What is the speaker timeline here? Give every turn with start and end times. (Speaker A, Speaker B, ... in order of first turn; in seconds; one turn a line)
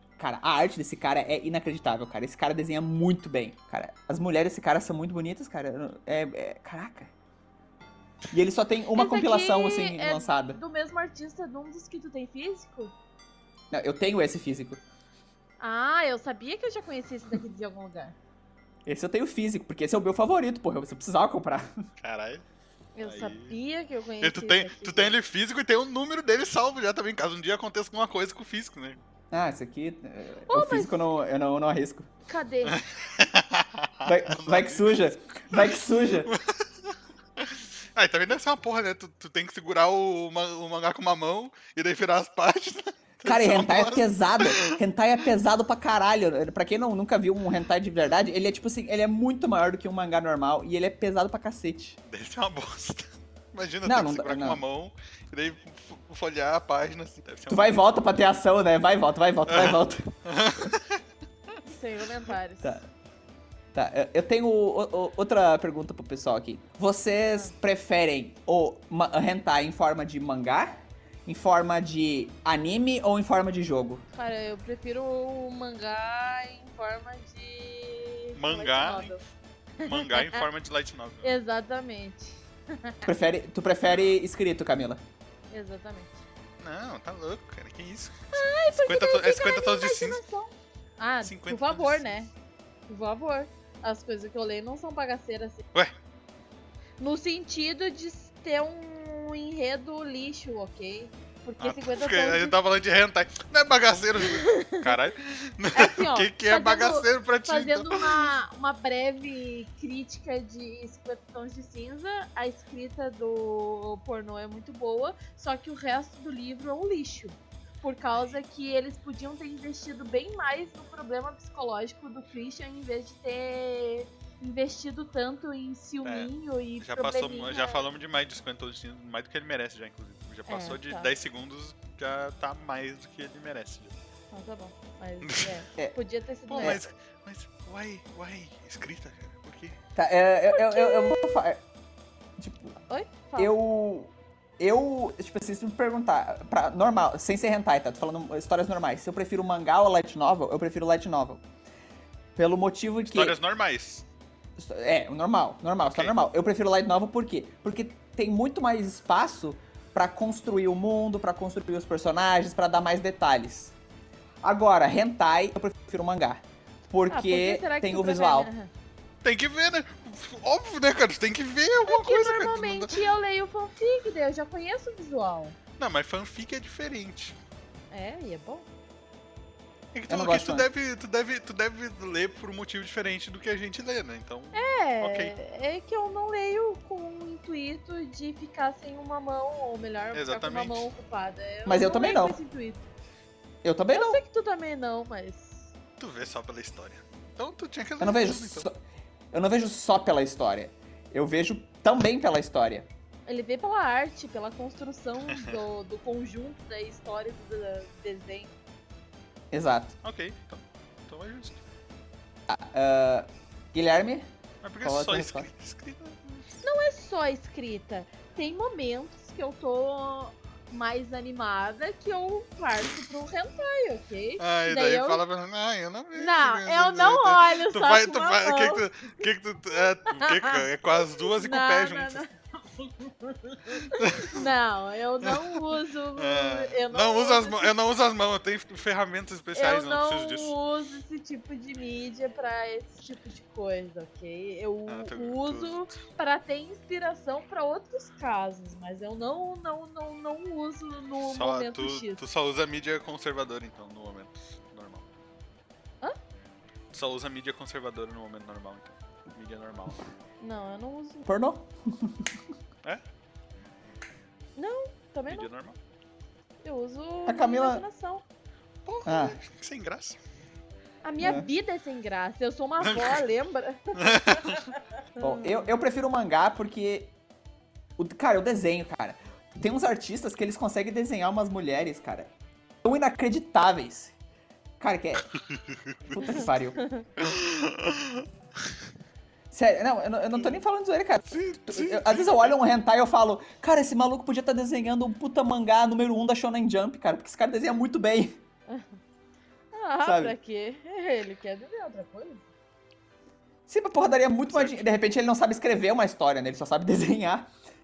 Speaker A: 0.2-7.1
Speaker A: 8.3-10.6
Speaker B: 8.9-12.9
Speaker A: 13.7-14.8
Speaker B: 15.6-18.1
Speaker A: 18.9-21.7
Speaker C: 22.0-22.4
Speaker B: 22.9-25.1
Speaker C: 23.0-23.5
Speaker C: 24.2-29.0
Speaker A: 29.3-32.1
Speaker B: 30.5-31.0
Speaker B: 32.3-32.8
Speaker C: 32.6-35.0
Speaker A: 34.0-36.3
Speaker C: 36.2-44.8
Speaker A: 43.2-52.0
Speaker C: 52.0-57.8
Speaker A: 53.8-54.6
Speaker A: 57.5-60.1
Speaker C: 59.5-61.0
Speaker B: 61.6-62.8
Speaker A: 62.6-62.9
Speaker A: 63.7-74.0
Speaker B: 74.1-79.2
Speaker C: 78.3-79.2
Speaker B: 79.8-80.4
Speaker C: 79.8-81.3
Speaker B: 81.2-83.1
Speaker A: 83.0-85.0
Speaker B: 85.5-86.2
Speaker C: 86.6-90.2
Speaker B: 88.3-92.3
Speaker C: 91.2-92.2
Speaker B: 92.9-95.6
Speaker B: 97.0-102.5
Speaker C: 101.6-108.3
Speaker B: 104.2-104.9
Speaker B: 105.7-127.8
Speaker C: 126.0-133.9
Speaker B: 130.5-131.1
Speaker B: 134.3-136.8
Speaker C: 135.2-135.5
Speaker C: 136.5-139.8
Speaker A: 136.6-136.8
Speaker A: 139.9-141.6
Speaker B: 140.5-141.4
Speaker A: 142.4-142.8
Speaker B: 142.9-143.6
Speaker A: 143.3-151.4
Speaker A: 152.3-153.4
Speaker C: 153.1-154.0
Speaker A: 154.6-163.7
Speaker C: 155.8-156.1
Speaker A: 164.4-168.5
Speaker B: 167.1-168.7
Speaker C: 169.2-173.0
Speaker B: 171.8-175.6
Speaker C: 175.8-177.3
Speaker B: 177.9-178.7
Speaker C: 179.9-185.3
Speaker A: 180.1-180.7
Speaker B: 184.5-192.8
Speaker C: 190.1-190.9
Speaker A: 191.7-192.4
Speaker A: 193.6-194.2
Speaker B: 193.9-195.7
Speaker C: 196.0-198.7
Speaker A: 198.0-198.8
Speaker A: 199.3-202.9
Speaker B: 203.3-208.5
Speaker A: 209.5-209.9
Speaker C: 210.0-211.6
Speaker A: 212.5-214.3
Speaker C: 214.6-216.5
Speaker A: 214.8-215.5
Speaker B: 216.6-225.2
Speaker C: 224.4-232.2
Speaker B: 226.1-228.9
Speaker B: 229.7-237.7
Speaker C: 233.9-234.5
Speaker C: 235.2-240.6
Speaker B: 239.5-252.2
Speaker C: 244.9-245.9
Speaker C: 251.2-255.0
Speaker C: 256.9-260.1
Speaker B: 260.4-261.3
Speaker A: 261.2-262.4
Speaker B: 264.6-265.5
Speaker C: 265.3-265.8
Speaker B: 266.6-268.2
Speaker A: 267.2-267.8
Speaker C: 268.9-270.2
Speaker A: 269.0-269.4
Speaker B: 271.0-275.7
Speaker A: 271.2-271.5
Speaker C: 272.8-273.2
Speaker C: 273.9-274.6
Speaker A: 275.2-277.1
Speaker A: 278.0-282.3
Speaker A: 282.8-284.1
Speaker A: 284.8-285.3
Speaker A: 286.1-286.8
Speaker B: 286.2-287.1
Speaker C: 287.2-288.3
Speaker A: 289.5-298.4
Speaker C: 291.3-292.5
Speaker B: 298.7-299.0
Speaker B: 299.7-302.4
Speaker A: 300.0-300.3
Speaker A: 303.7-307.5
Speaker C: 304.5-304.9